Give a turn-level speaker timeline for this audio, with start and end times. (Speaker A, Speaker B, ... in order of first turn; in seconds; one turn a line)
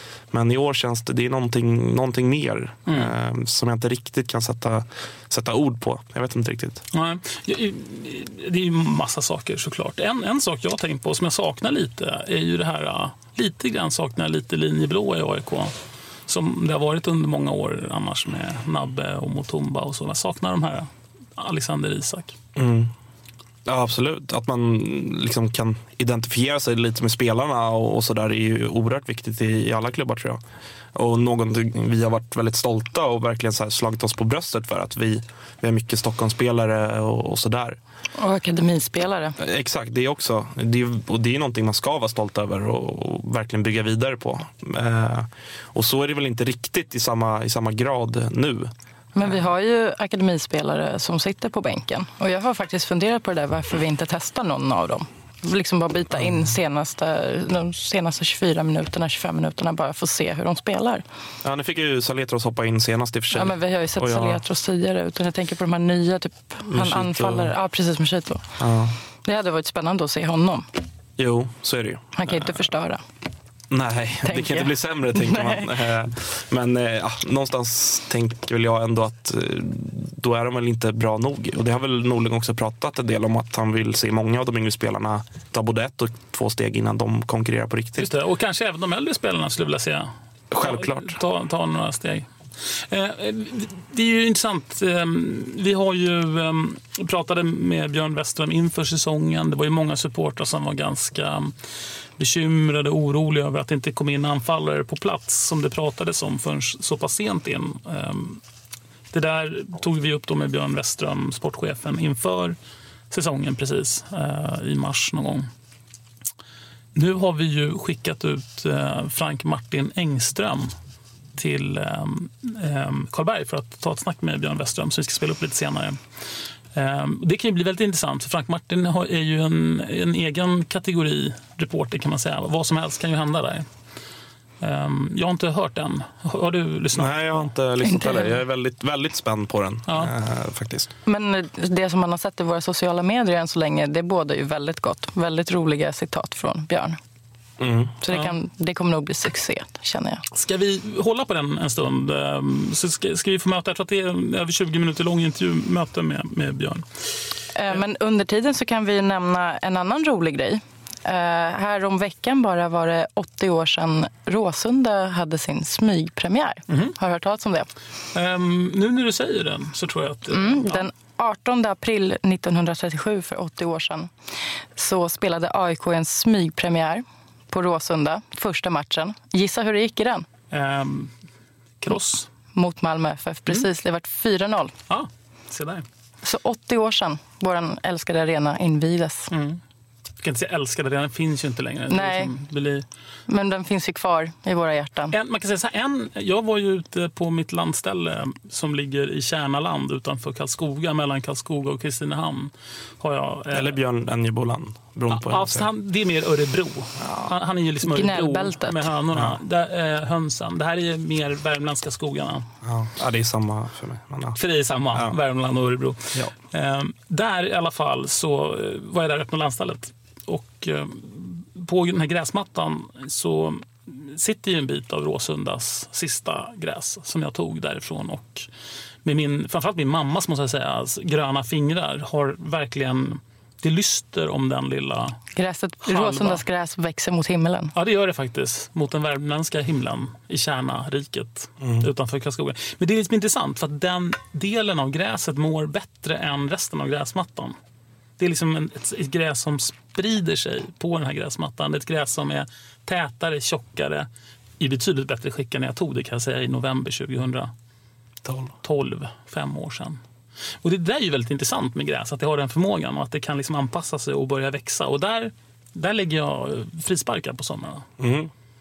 Speaker A: 0.3-6.8
Speaker B: 2.9-3.1
Speaker B: 6.9-15.7
Speaker B: 16.3-22.3
Speaker A: 22.6-22.9
Speaker A: 23.6-30.4
Speaker A: 30.9-37.8
Speaker C: 38.2-39.4
Speaker A: 39.4-49.4
Speaker C: 49.1-61.0
Speaker A: 56.1-56.5
Speaker A: 61.4-64.4
Speaker C: 63.3-68.4
Speaker A: 66.7-67.5
Speaker A: 68.6-68.9
Speaker C: 69.2-70.7
Speaker A: 71.2-72.7
Speaker C: 72.1-73.0
Speaker A: 73.7-88.1
Speaker C: 74.2-75.7
Speaker B: 88.0-101.5
Speaker A: 90.5-91.2
Speaker B: 102.2-108.4
Speaker B: 109.1-112.5
Speaker B: 113.1-115.5
Speaker B: 116.9-120.7
Speaker B: 121.3-126.0
Speaker B: 126.7-133.7
Speaker B: 134.6-137.5
Speaker A: 136.9-140.9
Speaker C: 137.8-138.4
Speaker B: 139.9-140.1
Speaker C: 141.1-147.0
Speaker A: 147.6-148.0
Speaker C: 148.0-150.2
Speaker B: 150.3-156.8
Speaker C: 157.5-167.7
Speaker B: 166.7-166.9
Speaker B: 168.1-170.9
Speaker C: 170.3-174.1
Speaker C: 174.7-180.3
Speaker B: 180.5-181.1
Speaker B: 181.8-182.3
Speaker C: 182.5-184.7
Speaker B: 184.9-185.8
Speaker C: 186.2-189.3
Speaker B: 189.3-189.6
Speaker B: 190.2-192.8
Speaker C: 191.9-192.3
Speaker C: 193.3-195.2
Speaker B: 195.1-203.8
Speaker A: 203.5-205.7
Speaker B: 205.1-212.4
Speaker A: 207.0-207.3
Speaker C: 207.8-208.9
Speaker A: 209.1-209.4
Speaker A: 212.6-214.4
Speaker B: 214.4-228.5
Speaker A: 214.9-215.2
Speaker B: 229.0-235.2
Speaker C: 235.3-237.7
Speaker B: 235.8-236.4
Speaker B: 237.7-247.6
Speaker A: 241.6-241.9
Speaker B: 248.2-254.1
Speaker B: 254.6-257.5
Speaker A: 258.2-258.5
Speaker B: 258.6-260.0
Speaker B: 260.6-267.9
Speaker A: 268.0-268.3